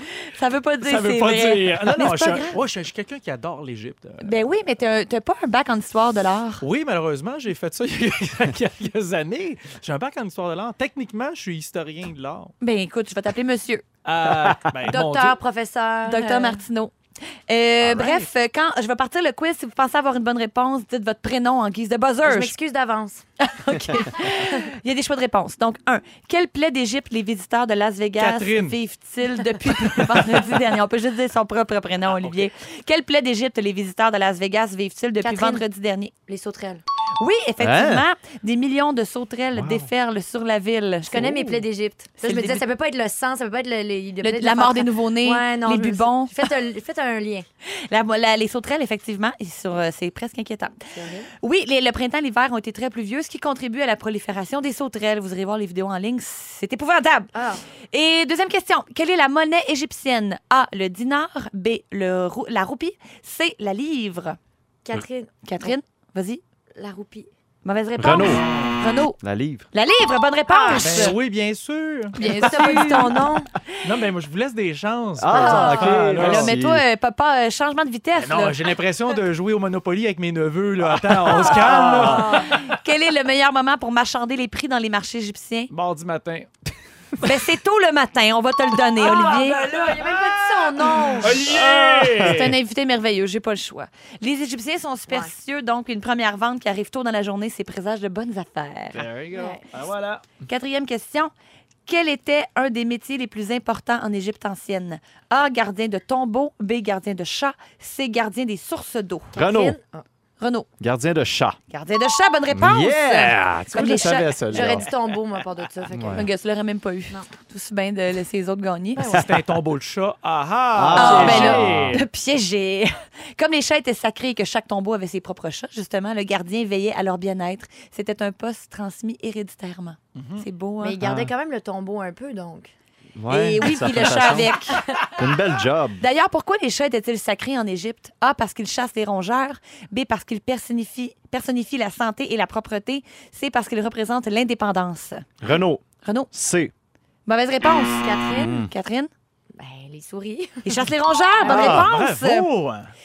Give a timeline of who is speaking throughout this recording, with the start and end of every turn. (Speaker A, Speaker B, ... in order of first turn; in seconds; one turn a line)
Speaker A: 0.1-2.6
Speaker B: 0.8-4.3
Speaker A: 4.2-6.6
Speaker B: 6.6-12.5
Speaker A: 12.6-13.8
Speaker B: 14.1-15.4
Speaker C: 14.4-14.7
Speaker D: 14.9-16.6
Speaker A: 16.1-16.9
Speaker A: 17.5-22.6
Speaker D: 22.2-23.2
Speaker A: 23.4-36.1
Speaker D: 24.2-24.6
Speaker B: 28.2-28.8
Speaker B: 32.2-32.5
Speaker D: 35.2-35.6
Speaker D: 36.3-36.8
Speaker A: 37.2-41.6
Speaker C: 37.6-38.0
Speaker C: 39.5-39.9
Speaker D: 41.1-47.5
Speaker A: 42.2-42.6
Speaker A: 44.2-46.5
Speaker A: 47.7-57.3
Speaker D: 51.0-51.3
Speaker D: 57.4-57.6
Speaker A: 57.9-64.4
Speaker D: 64.8-65.7
Speaker A: 65.4-66.4
Speaker D: 66.8-67.3
Speaker A: 67.7-69.2
Speaker C: 68.0-68.4
Speaker B: 68.1-68.8
Speaker C: 69.2-69.7
Speaker A: 69.7-71.2
Speaker D: 70.5-71.1
Speaker B: 70.7-72.2
Speaker A: 72.2-73.2
Speaker D: 72.2-73.5
Speaker B: 73.8-76.5
Speaker C: 75.2-76.8
Speaker D: 75.3-75.8
Speaker A: 75.4-78.6
Speaker B: 78.2-82.8
Speaker D: 81.3-82.5
Speaker A: 81.4-85.7
Speaker C: 81.6-82.2
Speaker B: 85.7-86.5
Speaker A: 87.2-89.7
Speaker D: 89.0-91.8
Speaker B: 89.7-92.5
Speaker A: 91.3-91.6
Speaker A: 92.2-99.1
Speaker B: 98.9-100.2
Speaker D: 99.3-99.6
Speaker A: 100.5-101.3
Speaker A: 101.9-109.3
Speaker D: 109.3-110.0
Speaker C: 109.3-109.8
Speaker A: 110.4-110.7
Speaker C: 110.8-111.6
Speaker A: 111.7-114.7
Speaker C: 112.5-114.9
Speaker D: 114.5-116.3
Speaker C: 115.9-116.2
Speaker A: 116.1-119.1
Speaker D: 119.0-119.2
Speaker B: 119.0-122.0
Speaker C: 120.7-122.0
Speaker A: 121.0-131.0
Speaker B: 130.2-130.5
Speaker D: 130.8-132.7
Speaker C: 131.0-131.3
Speaker C: 133.2-136.0
Speaker A: 133.3-134.8
Speaker D: 133.6-135.3
Speaker A: 136.0-145.3
Speaker C: 145.4-146.7
Speaker A: 146.0-146.3
Speaker A: 147.3-149.1
Speaker D: 148.0-148.6
Speaker C: 148.3-148.7
Speaker D: 149.6-150.9
Speaker A: 150.6-152.5
Speaker D: 151.4-151.8
Speaker B: 151.4-152.9
Speaker C: 151.5-151.9